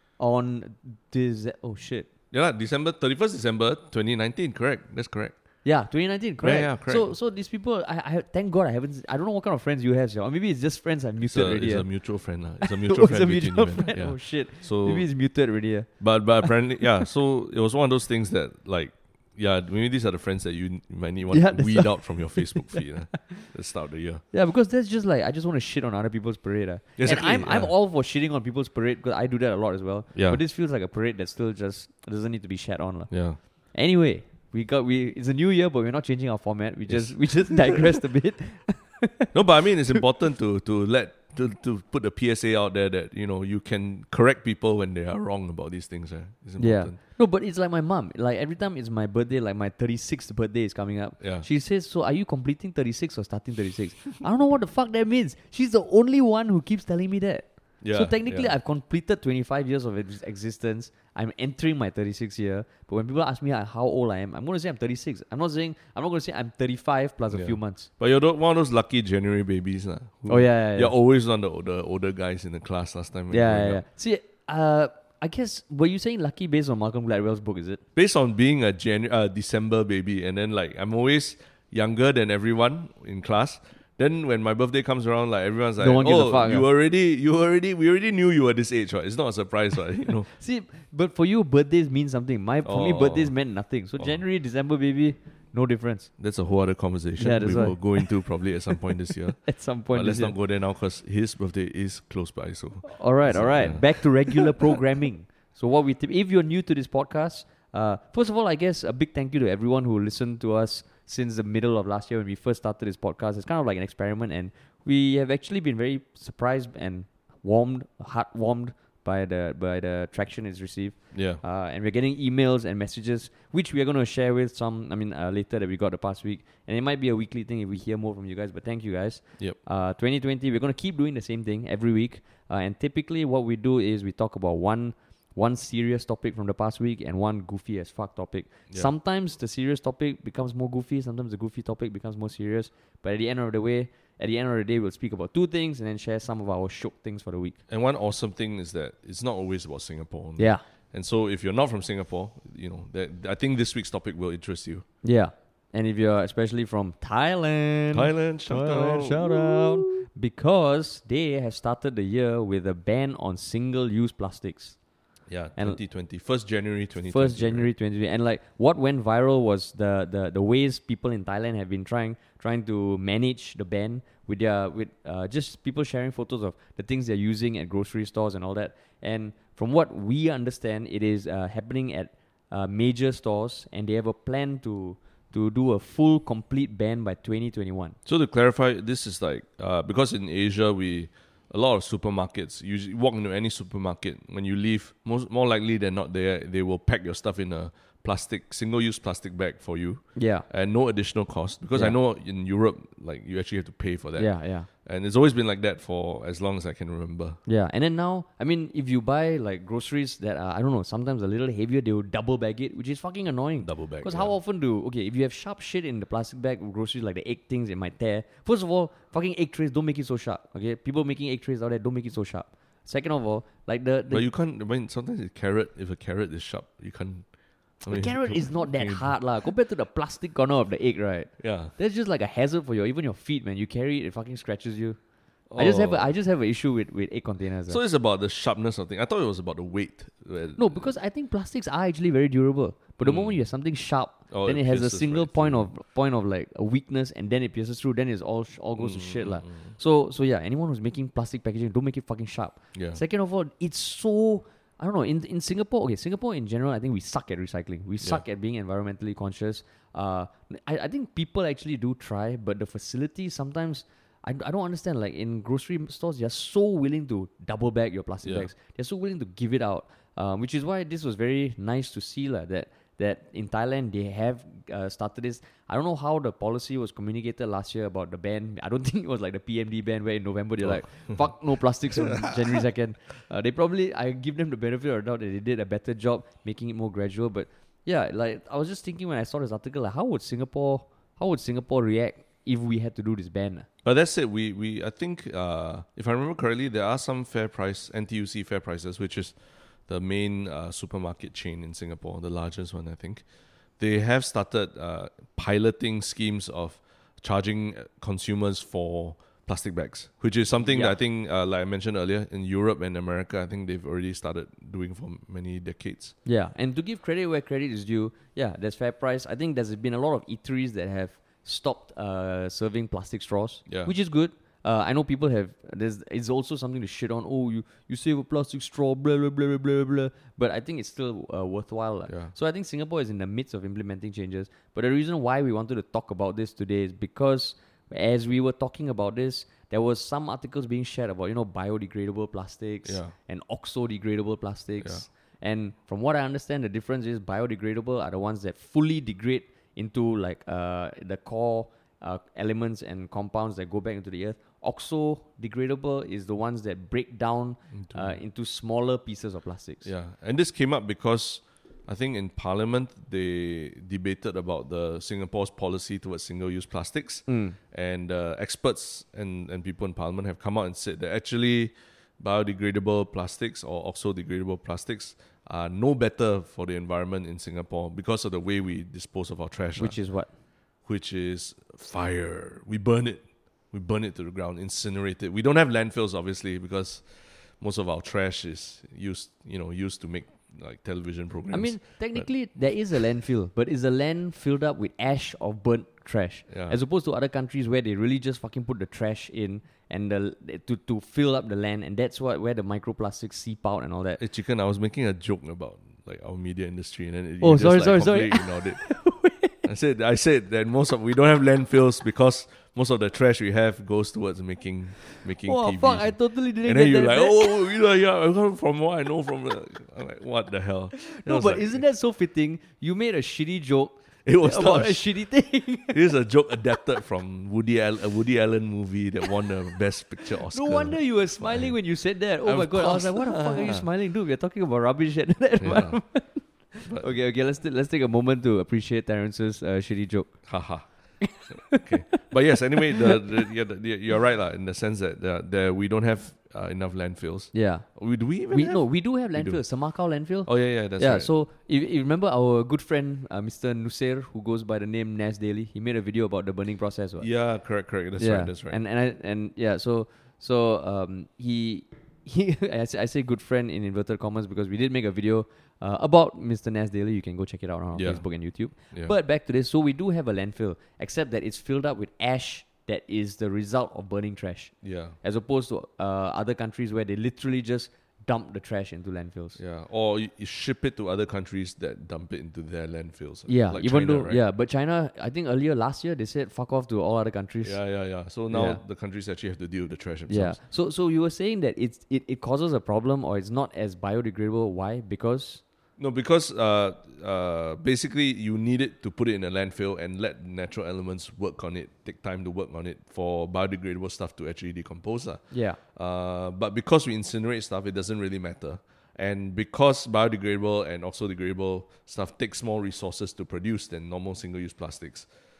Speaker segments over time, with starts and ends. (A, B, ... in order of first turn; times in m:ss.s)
0:00.2-0:02.1 A
0:02.3-0:05.3 B
0:05.6-0:11.8 A
0:06.4-0:07.1 B
0:11.2-0:15.1 B
0:12.6-0:15.9 A
0:16.0-0:24.2 B
0:21.3-0:23.4 A
0:24.3-0:39.3 A
0:27.0-0:27.7 B
0:30.1-0:30.4 B
0:33.1-0:33.4 B
0:36.9-0:37.9 B
0:39.3-0:47.0 B
0:46.6-1:07.9 A
0:51.2-0:51.4 B
0:57.8-0:58.5 B
1:07.3-1:13.8 B
1:10.3-1:10.9 A
1:13.3-1:17.8 A
1:18.0-1:30.3 B
1:25.8-1:26.6 A
1:30.3-1:36.1 A
1:32.6-1:33.3 B
1:36.2-1:39.4 B
1:37.2-1:38.2 A
1:39.4-1:40.3 A
1:39.9-1:44.8 B
1:42.8-2:27.6 A
2:01.1-2:01.4 B
2:27.7-2:34.8 B
2:35.0-2:44.8 A
2:37.9-2:40.0 B
2:45.3-2:47.7 B
2:47.1-3:08.0 A
3:08.0-3:27.4 B
3:20.1-3:20.4 A
3:24.2-3:24.7 A
3:27.4-3:44.2 A
3:33.6-3:34.3 B
3:44.1-3:47.3 B
3:47.8-3:49.2 B
3:47.9-3:55.0 A
3:51.4-3:51.7 B
3:55.5-3:56.1 B
3:55.6-3:57.8 A
3:57.7-4:00.9 B
4:00.6-4:53.6 A
4:03.0-4:03.4 B
4:04.3-4:05.7 B
4:08.8-4:09.8 B
4:12.7-4:13.0 B
4:28.2-4:28.5 B
4:40.6-4:41.4 B
4:41.9-4:42.3 B
4:53.8-4:59.3 B
4:59.9-5:03.2 B
5:03.8-5:16.1 B
5:10.6-5:11.0 A
5:16.2-5:59.8 A
5:23.7-5:23.9 B
5:32.1-5:32.3 B
5:42.8-5:43.1 B
5:57.7-5:58.2 B
5:59.8-6:20.0 B
6:07.3-6:07.6 A
6:19.8-6:20.3 A
6:20.8-6:32.3 B
6:31.5-6:44.2 A
6:36.5-6:36.8 B
6:44.2-6:48.8 B
6:47.4-6:49.7 A
6:49.6-7:01.8 B
6:55.1-6:57.5 A
7:00.9-7:06.0 A
7:04.2-7:05.0 B
7:05.9-7:11.8 B
7:10.3-7:20.4 A
7:12.4-7:13.9 B
7:15.6-7:16.0 B
7:16.8-7:17.1 B
7:20.4-7:29.6 B
7:21.2-7:22.3 A
7:27.5-7:27.8 A
7:28.5-7:37.3 A
7:30.4-7:31.3 B
7:37.2-7:38.8 B
7:38.2-7:59.6 A
7:47.9-7:49.1 B
7:54.8-7:55.2 B
7:59.6-8:04.4 B
8:03.5-8:07.8 A
8:07.6-8:10.6 B
8:08.5-8:08.8 A
8:10.3-8:15.6 A
8:16.0-8:35.3 B
8:25.5-8:25.8 A